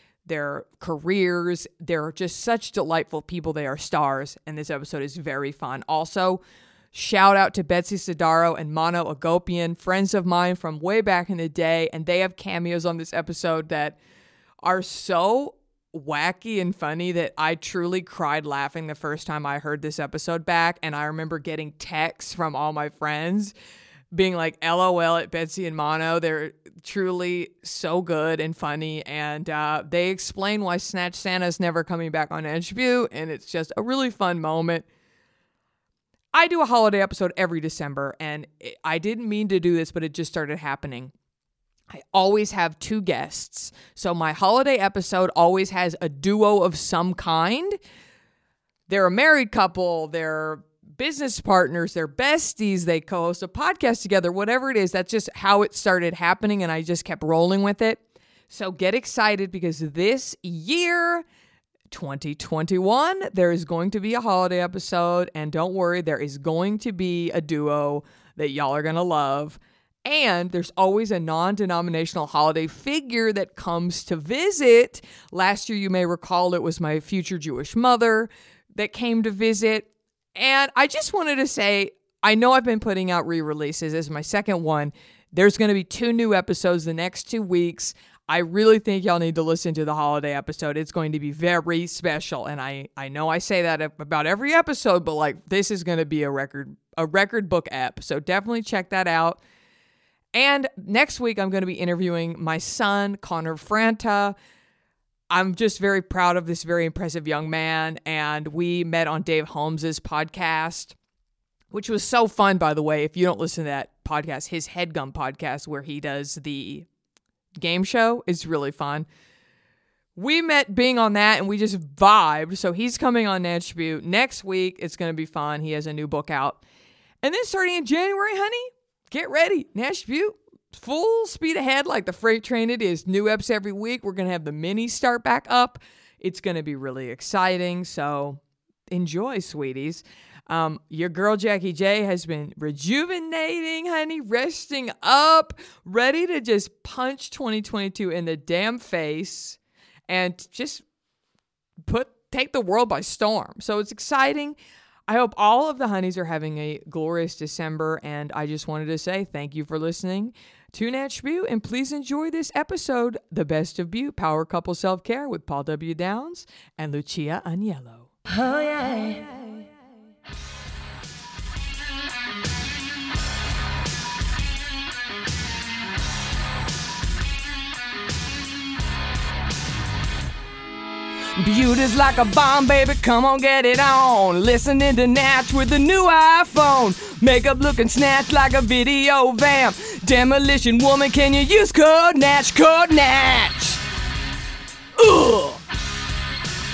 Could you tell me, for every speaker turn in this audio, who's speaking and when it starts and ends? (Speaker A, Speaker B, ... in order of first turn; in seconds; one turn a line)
Speaker A: 0.2-6.4
Speaker A: 6.9-14.0
Speaker A: 14.6-23.5
Speaker A: 24.1-34.9
Speaker A: 36.3-41.1
Speaker A: 41.9-47.8
Speaker A: 48.9-61.2
Speaker A: 61.9-99.4
Speaker A: 100.3-104.3
Speaker A: 105.3-110.9
Speaker A: 111.7-116.8
Speaker A: 117.6-119.1
Speaker A: 120.2-126.6
Speaker A: 127.2-138.4
Speaker A: 138.9-150.8
Speaker A: 151.8-154.6
Speaker A: 155.1-168.1
Speaker A: 181.4-193.8
Speaker A: 195.0-195.6